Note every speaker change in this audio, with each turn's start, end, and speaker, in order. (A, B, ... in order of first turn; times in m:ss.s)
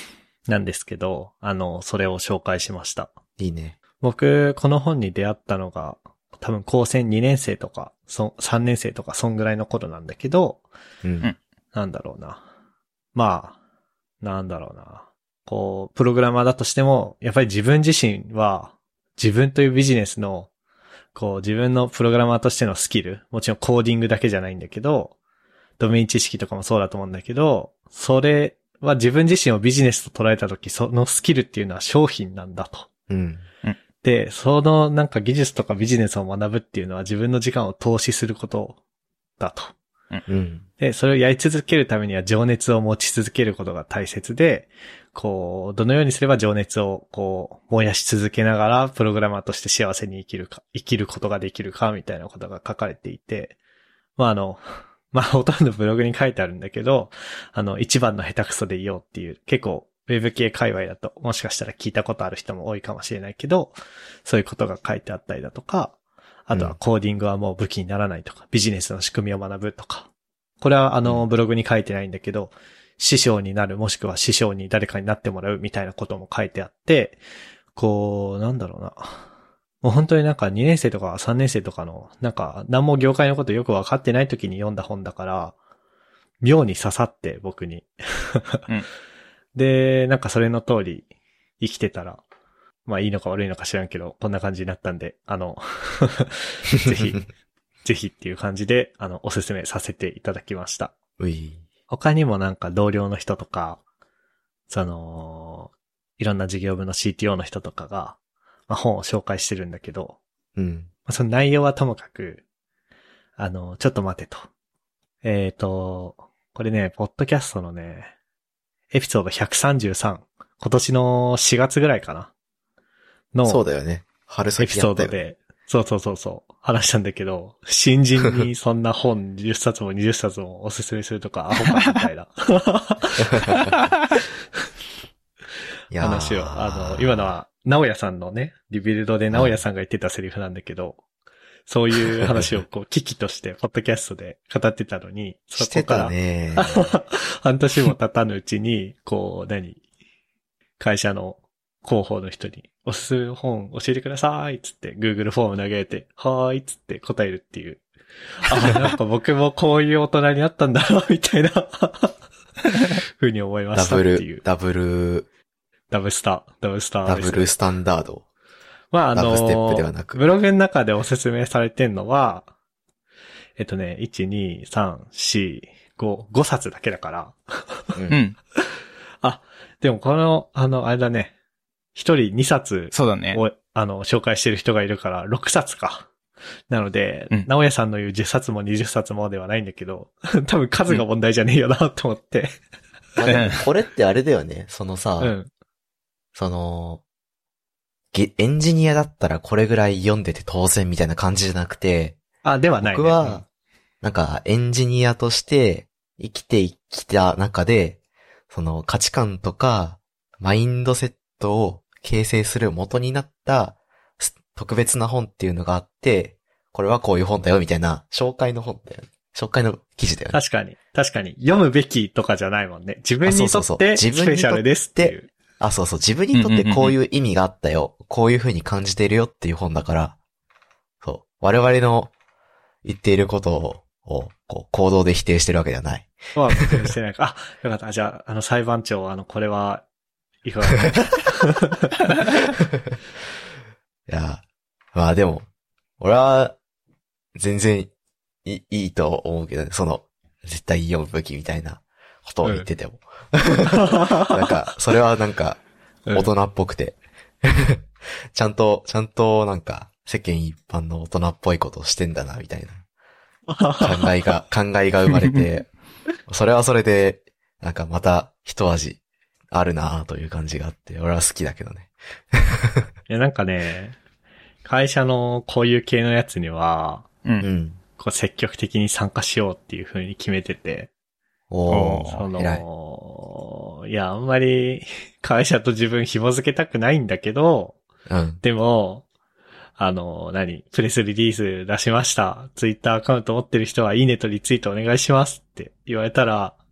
0:00.5-0:03.1 A
0:03.4-0:03.8 B
0:04.0-0:10.6 A
0:11.0-0:11.3 B
0:11.7-0:12.4 A
0:13.1-0:13.6 A
0:14.2-0:20.5 A
0:21.1-0:25.1 A
0:25.8-0:32.9 A
0:33.1-0:33.4 B
0:34.0-0:38.8 A
0:39.4-0:39.7 A
0:40.3-0:40.6 B
0:40.8-0:53.6 A
0:54.2-1:05.9 A
1:06.5-1:10.1 A
1:10.6-1:17.2 A
1:17.8-1:19.2 A
1:19.8-1:25.5 A
1:26.4-1:28.6 A
1:29.5-1:31.1 A
1:31.6-1:32.2 A
1:32.9-1:37.2 A
1:37.8-1:40.9 A
1:41.2-1:41.6 B
1:41.9-1:43.8 A
1:44.7-1:50.2 A
1:50.6-1:50.9 B
1:51.1-1:52.4 A
1:53.4-1:54.5 A
1:55.2-1:58.1 A
1:58.9-2:02.3 A
2:03.3-2:03.6 A
2:03.4-2:05.2 B
2:04.6-2:13.6 A
2:13.5-2:13.7 B
2:15.9-2:17.3 B
2:16.0-2:21.0 A
2:19.3-2:19.6 B
2:21.7-2:29.8 A
2:25.6-2:26.9 B
2:30.8-2:37.8 A
2:38.4-2:42.1 A
2:42.7-2:44.4 A
2:43.7-2:45.3 B
2:45.9-2:47.5 A
2:47.0-2:48.2 B
2:48.9-2:52.5 A
2:49.1-2:50.2 B
2:53.6-2:57.8 A
2:58.1-2:58.4 C
2:59.2-3:01.3 A
3:01.9-3:06.1 A
3:02.9-3:03.4 C
3:06.7-3:12.5 A
3:13.2-3:15.3 B
3:13.3-3:13.6 C
3:15.2-3:15.5 A
3:16.3-3:17.0 B
3:18.1-3:22.2 B
3:22.4-3:23.4 A
3:22.8-3:23.4 B
3:24.0-3:28.0 B
3:28.5-3:40.4 B
3:40.3-3:45.3 A
3:43.2-3:50.2 B
3:46.3-3:47.0 C
3:51.0-3:52.1 B
3:52.8-3:56.8 B
3:56.4-3:59.8 A
4:00.4-4:01.9 A
4:04.1-4:04.4 B
4:04.9-4:05.5 B
4:06.0-4:06.6 B
4:07.3-4:07.9 B
4:08.4-4:15.6 B
4:13.8-4:14.2 A
4:16.1-4:22.8 B
4:23.5-4:24.1 A
4:23.8-4:25.7 B
4:26.3-4:29.0 B
4:29.5-4:32.9 B
4:33.1-4:34.0 A
4:34.6-4:37.1 A
4:37.4-4:37.8 B
4:38.0-4:40.9 A
4:41.5-4:42.6 B
4:41.7-4:42.2 C
4:42.1-4:47.8 A
4:48.1-4:48.4 B
4:48.4-4:49.0 A
4:49.8-4:56.6 A